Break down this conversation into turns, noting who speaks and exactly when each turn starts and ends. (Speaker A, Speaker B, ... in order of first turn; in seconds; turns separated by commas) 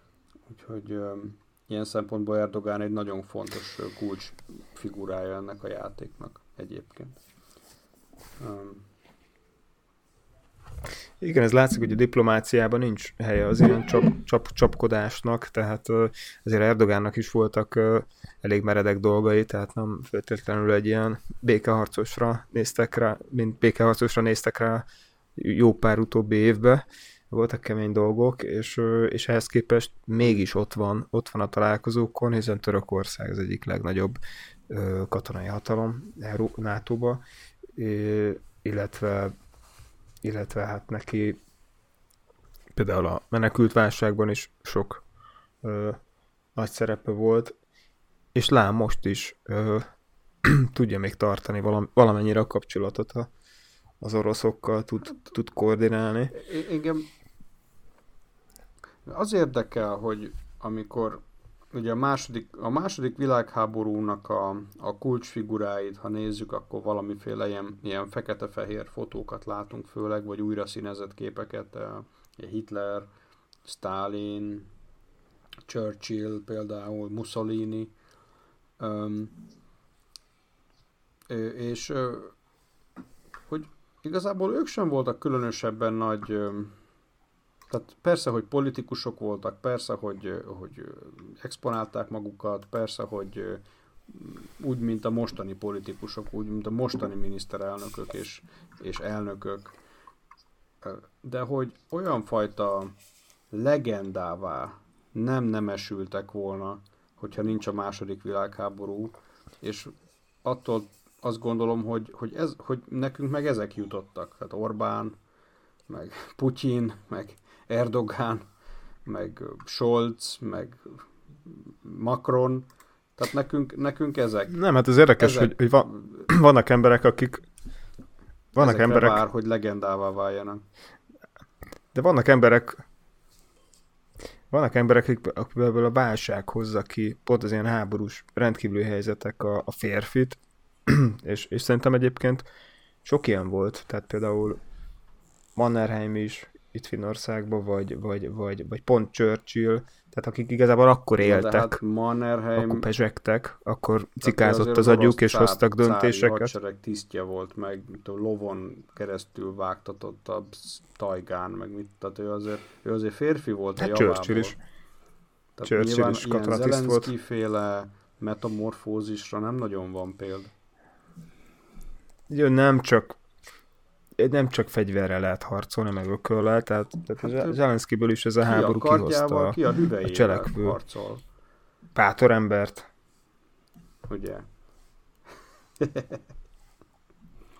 Speaker A: 0.5-7.2, Speaker A: 8.4-8.8, Speaker B: 11.2-37.2, Speaker B: 37.7-39.3, Speaker B: 40.2-41.4, Speaker B: 42.7-45.0, Speaker B: 45.6-46.0, Speaker B: 46.5-47.5, Speaker B: 48.3-49.9, Speaker B: 50.4-53.3, Speaker B: 54.0-56.3, Speaker A: 56.3-57.1, Speaker A: 59.0-73.1, Speaker A: 73.6-74.7, Speaker A: 75.7-77.9, Speaker A: 78.8-79.3, Speaker A: 81.3-82.3, Speaker A: 83.5-86.8, Speaker A: 87.7-99.8, Speaker A: 100.8-102.9, Speaker A: 103.5-115.2, Speaker A: 115.9-118.5, Speaker A: 119.0-124.6, Speaker B: 124.5-127.5, Speaker A: 125.2-126.3, Speaker B: 128.5-129.2, Speaker A: 128.6-130.6, Speaker B: 131.9-132.8, Speaker B: 134.5-142.5, Speaker B: 143.0-144.6, Speaker B: 145.6-151.8, Speaker A: 151.2-152.9, Speaker B: 152.6-156.5, Speaker A: 154.2-164.6, Speaker B: 163.8-164.6, Speaker A: 165.6-170.5, Speaker B: 165.6-167.1, Speaker B: 172.3-173.2, Speaker B: 174.2-180.8, Speaker A: 177.2-177.6, Speaker A: 178.4-181.2, Speaker B: 181.9-182.9, Speaker A: 184.1-184.4, Speaker A: 185.8-186.2